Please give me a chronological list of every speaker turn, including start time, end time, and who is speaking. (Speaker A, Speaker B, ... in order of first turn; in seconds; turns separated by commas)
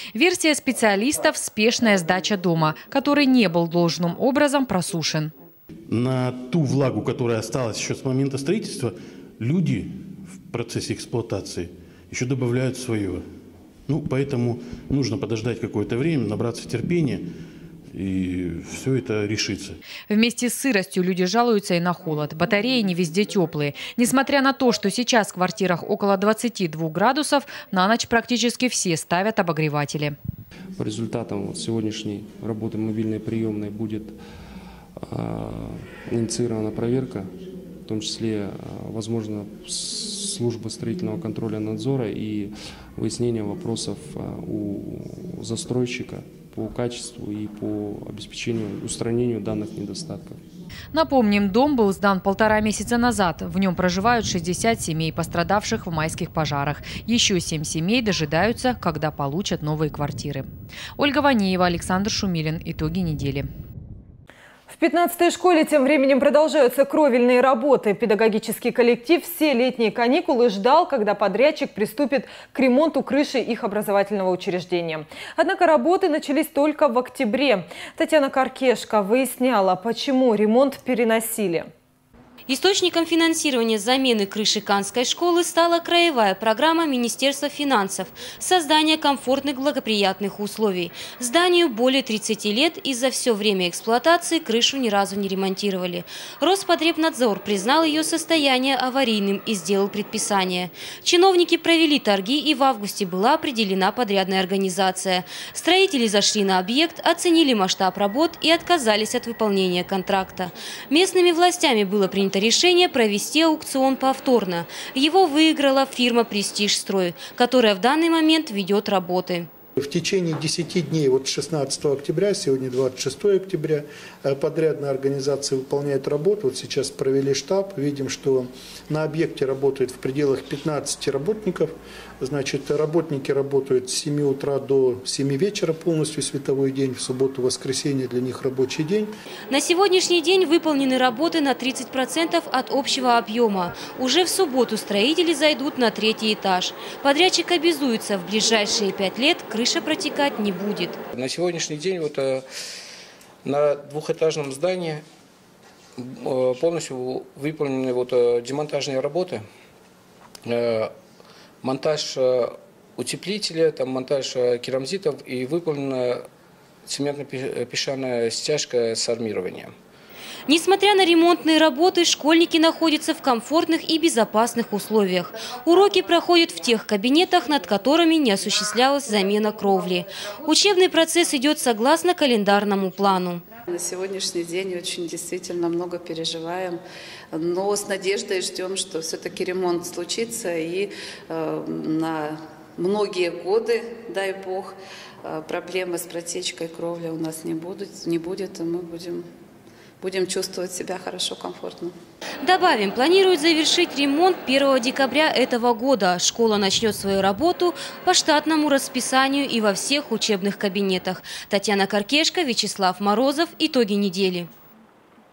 Speaker A: 0.1-5.3, Speaker B: 5.9-13.2, Speaker B: 13.9-17.3, Speaker B: 17.9-19.8, Speaker A: 20.1-30.1, Speaker C: 30.7-34.2, Speaker C: 35.0-37.3, Speaker C: 37.8-50.4, Speaker A: 50.9-63.5, Speaker D: 64.7-81.7, Speaker E: 82.5-119.5, Speaker F: 119.8-139.1, Speaker E: 139.5-151.0, Speaker G: 151.1-152.4, Speaker G: 153.4-155.0, Speaker G: 156.0-159.4, Speaker G: 160.4-160.9, Speaker G: 161.6-166.2, Speaker G: 166.8-169.7, Speaker E: 170.5-183.5, Speaker H: 183.5-186.8, Speaker H: 187.3-199.3, Speaker H: 200.0-201.9, Speaker E: 202.4-214.5